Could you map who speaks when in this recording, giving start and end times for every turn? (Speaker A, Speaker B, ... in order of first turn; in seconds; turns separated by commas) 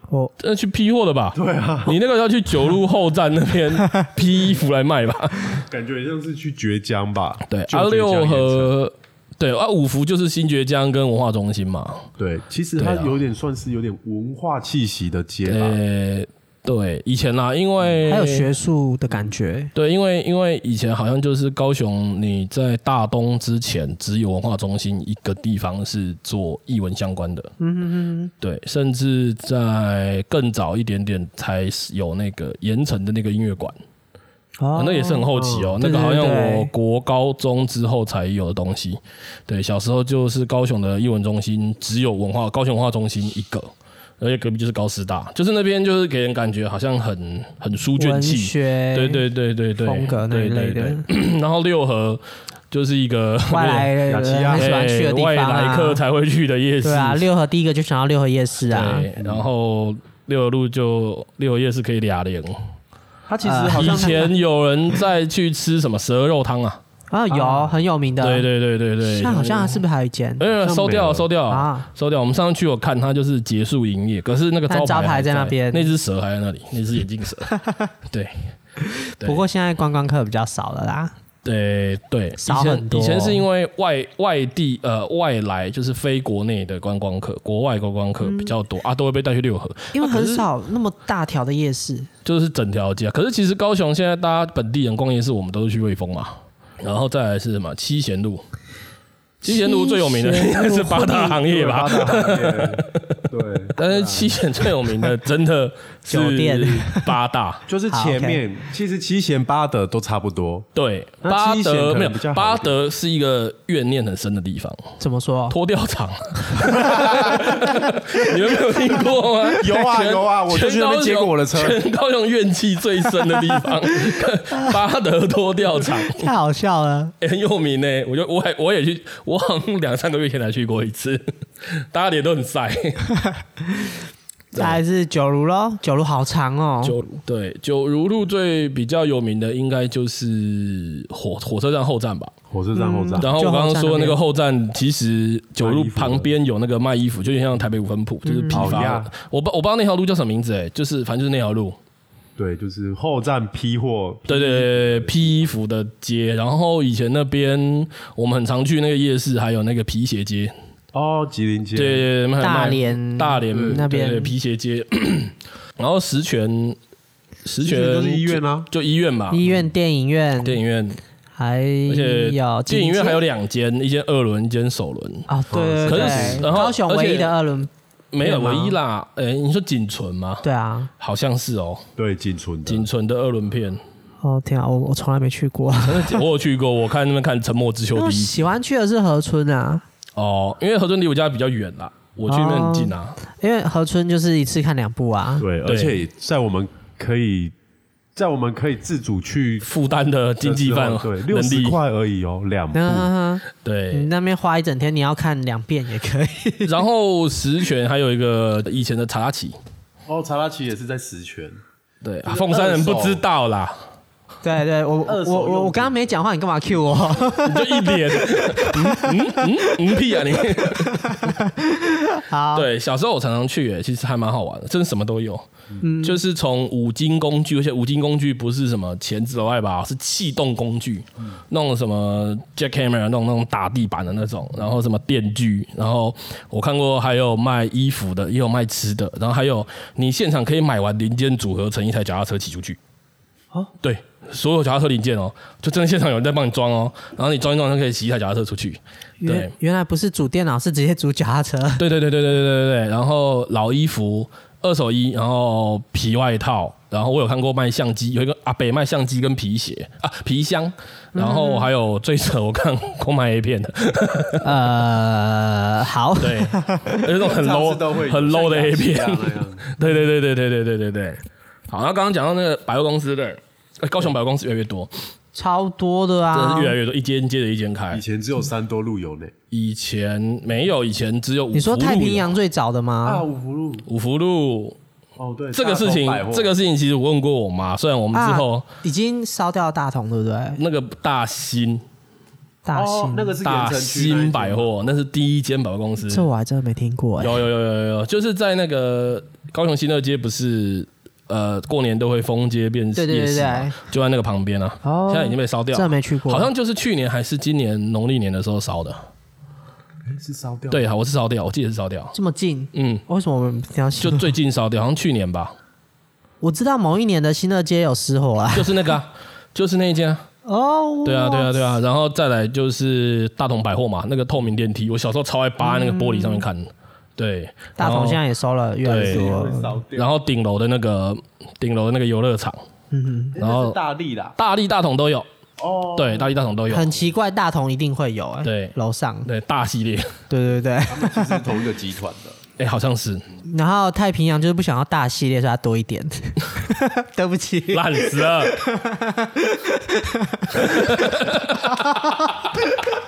Speaker A: 0.4-5.6, Speaker B: 1.4-2.0, Speaker B: 5.6-8.7, Speaker A: 7.5-12.1, Speaker B: 12.2-15.8, Speaker A: 12.8-13.1, Speaker A: 15.4-18.5, Speaker C: 18.1-19.7, Speaker A: 19.8-27.5, Speaker C: 27.6-28.3, Speaker A: 28.4-33.8, Speaker C: 34.6-36.7, Speaker A: 34.8-53.9, Speaker B: 35.4-35.7, Speaker C: 48.0-49.2, Speaker C: 49.8-51.1, Speaker C: 53.5-56.0, Speaker B: 54.1-54.7, Speaker A: 54.6-57.2, Speaker C: 56.8-59.1, Speaker A: 58.7-62.6, Speaker B: 59.2-59.5, Speaker B: 63.3-64.3, Speaker C: 63.4-64.3, Speaker A: 63.7-66.8, Speaker C: 67.1-68.5, Speaker B: 67.3-67.7, Speaker A: 68.2-69.8, Speaker C: 69.0-70.4, Speaker A: 70.4-77.5, Speaker B: 70.6-71.3, Speaker C: 71.5-71.9, Speaker C: 74.7-75.9, Speaker C: 77.5-77.9, Speaker A: 78.1-78.5, Speaker C: 78.8-81.1, Speaker A: 81.5-90.5, Speaker C: 82.4-83.5, Speaker C: 88.2-88.5, Speaker C: 89.9-92.1, Speaker A: 92.2-98.4, Speaker A: 99.4-103.1, Speaker C: 99.4-101.4, Speaker B: 101.4-104.4, Speaker A: 103.7-107.6, Speaker C: 106.1-107.1, Speaker B: 107.7-110.7, Speaker C: 107.9-108.4, Speaker A: 110.8-114.8, Speaker B: 111.2-112.8, Speaker C: 115.0-115.6, Speaker A: 115.5-126.3, Speaker C: 116.6-117.6, Speaker B: 119.6-121.8, Speaker C: 125.8-127.1, Speaker A: 127.2-133.1, Speaker C: 133.6-134.0, Speaker C: 134.5-137.0, Speaker A: 134.5-134.8, Speaker A: 136.8-142.3, Speaker B: 142.5-143.3, Speaker C: 142.7-144.2, Speaker A: 143.2-151.8, Speaker B: 145.6-146.3, Speaker C: 148.2-148.8, Speaker B: 148.5-149.1, Speaker B: 152.4-155.4, Speaker A: 154.3-160.5, Speaker B: 160.9-162.1, Speaker A: 161.8-166.8, Speaker C: 162.4-164.3, Speaker B: 163.5-163.8, Speaker A: 167.4-169.4, Speaker B: 167.6-168.7, Speaker C: 169.3-170.6, Speaker A: 170.4-171.0, Speaker C: 171.4-173.2, Speaker A: 171.9-175.3, Speaker C: 175.3-177.7, Speaker B: 175.5-176.5, Speaker A: 175.8-177.4, Speaker A: 178.1-180.4, Speaker C: 178.2-178.8, Speaker C: 180.4-180.9, Speaker A: 181.0-181.8, Speaker B: 182.0-182.9, Speaker A: 182.7-183.8, Speaker C: 184.2-186.2, Speaker A: 185.8-188.3, Speaker C: 187.9-189.8, Speaker A: 190.2-193.2, Speaker C: 192.3-195.5, Speaker B: 195.4-197.6, Speaker A: 195.7-196.0, Speaker B: 198.2-199.7, Speaker A: 199.6-201.8, Speaker B: 200.4-203.1, Speaker C: 202.7-206.7, Speaker A: 203.6-204.1, Speaker A: 206.7-209.6, Speaker B: 210.1-211.6, Speaker A: 212.0-213.8, Speaker B: 212.3-213.2, Speaker C: 214.4-222.7, Speaker B: 215.1-216.0, Speaker A: 217.4-221.3, Speaker A: 222.5-225.5, Speaker C: 225.8-226.2, Speaker A: 226.0-242.8, Speaker A: 243.8-249.5, Speaker C: 249.2-251.8, Speaker A: 251.8-264.5, Speaker C: 261.1-261.7, Speaker C: 264.4-267.0, Speaker A: 266.2-274.9, Speaker B: 267.2-269.7, Speaker C: 275.4-276.8, Speaker A: 276.3-278.0, Speaker B: 277.9-279.3, Speaker A: 279.5-282.3, Speaker C: 281.5-283.2, Speaker B: 283.0-283.9, Speaker A: 283.9-284.8, Speaker B: 285.2-286.5, Speaker A: 285.5-288.7, Speaker C: 288.1-290.6, Speaker A: 290.6-291.8, Speaker C: 292.6-293.4, Speaker B: 292.7-294.7, Speaker A: 293.4-296.3, Speaker C: 296.1-297.4, Speaker A: 297.2-309.0, Speaker C: 303.0-303.8, Speaker C: 304.8-306.5, Speaker B: 310.1-310.9, Speaker A: 310.7-312.1, Speaker C: 312.1-314.3, Speaker A: 312.7-313.0, Speaker A: 314.0-315.6, Speaker C: 316.4-318.9, Speaker A: 318.5-320.2, Speaker C: 320.4-321.8, Speaker A: 321.0-328.2, Speaker C: 325.6-326.4, Speaker C: 327.8-329.7, Speaker A: 328.8-329.3, Speaker B: 328.9-330.1, Speaker A: 329.9-332.6, Speaker C: 332.9-333.4, Speaker B: 333.4-334.4, Speaker A: 333.4-333.8, Speaker A: 334.4-335.3, Speaker B: 335.6-336.4, Speaker A: 336.0-336.9, Speaker C: 336.7-339.3, Speaker A: 338.4-338.7, Speaker A: 339.2-340.1, Speaker C: 340.3-341.5, Speaker B: 340.9-342.4, Speaker A: 342.6-343.2, Speaker C: 343.4-352.3, Speaker A: 347.7-348.6, Speaker A: 350.5-352.6